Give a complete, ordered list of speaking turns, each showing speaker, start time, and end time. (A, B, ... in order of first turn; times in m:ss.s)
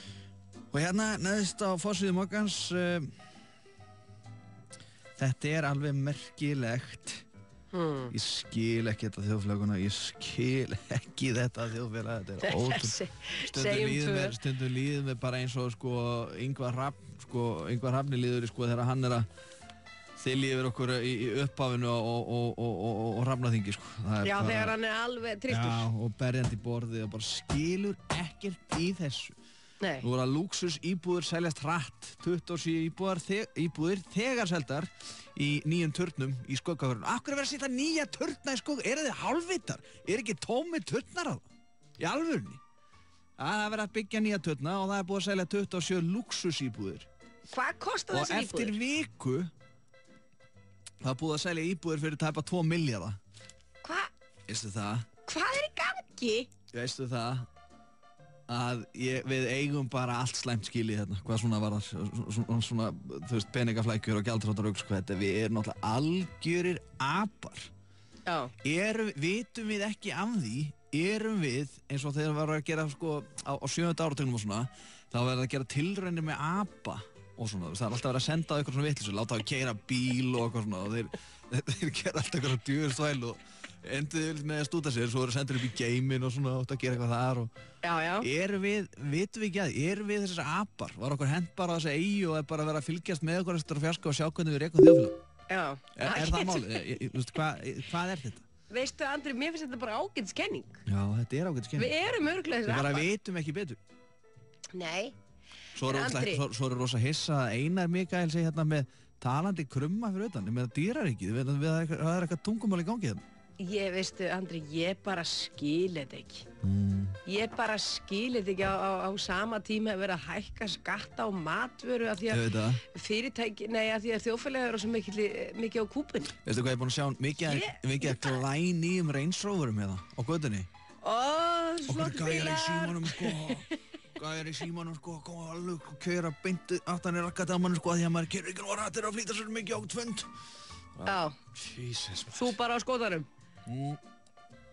0:00.7-0:03.1 A
0:05.2-0:07.2 A
0:07.7-0:08.1 B
0:08.1-0:19.3 A
0:12.4-0:14.4 B
0:20.2-0:24.8 A
0:24.2-0:25.9 B
0:25.5-0:29.4 A
0:29.8-0:30.0 B
0:30.0-0:41.4 A
0:42.0-0:42.6 A
0:43.4-0:47.1 A
0:47.5-0:48.8 B
0:48.1-0:49.5 A
0:51.0-0:53.2 A
0:53.8-0:54.1 B
0:54.5-0:55.1 A
0:55.3-0:56.5 B
0:56.7-0:57.5 A
0:58.5-1:07.7 A
1:08.2-1:08.5 B
1:08.6-1:27.5 A
1:27.8-1:28.3 B
1:28.2-1:35.2 A
1:35.5-1:36.9 B
1:35.9-1:38.4 A
1:38.7-1:40.8 B
1:40.8-1:41.9 A
1:41.8-1:43.1 B
1:42.6-1:43.8 A
1:44.7-1:45.1 B
1:45.7-1:53.2 A
1:45.8-1:46.4 B
1:53.6-1:56.4 B
1:56.6-1:57.2 A
1:57.2-2:06.3 B
2:02.3-2:02.8 A
2:06.4-2:10.7 A
2:07.4-2:08.4 B
2:11.0-2:13.8 B
2:11.9-2:20.3 A
2:21.0-2:22.5 A
2:21.0-2:21.4 B
2:22.3-2:23.3 B
2:23.7-2:24.0 A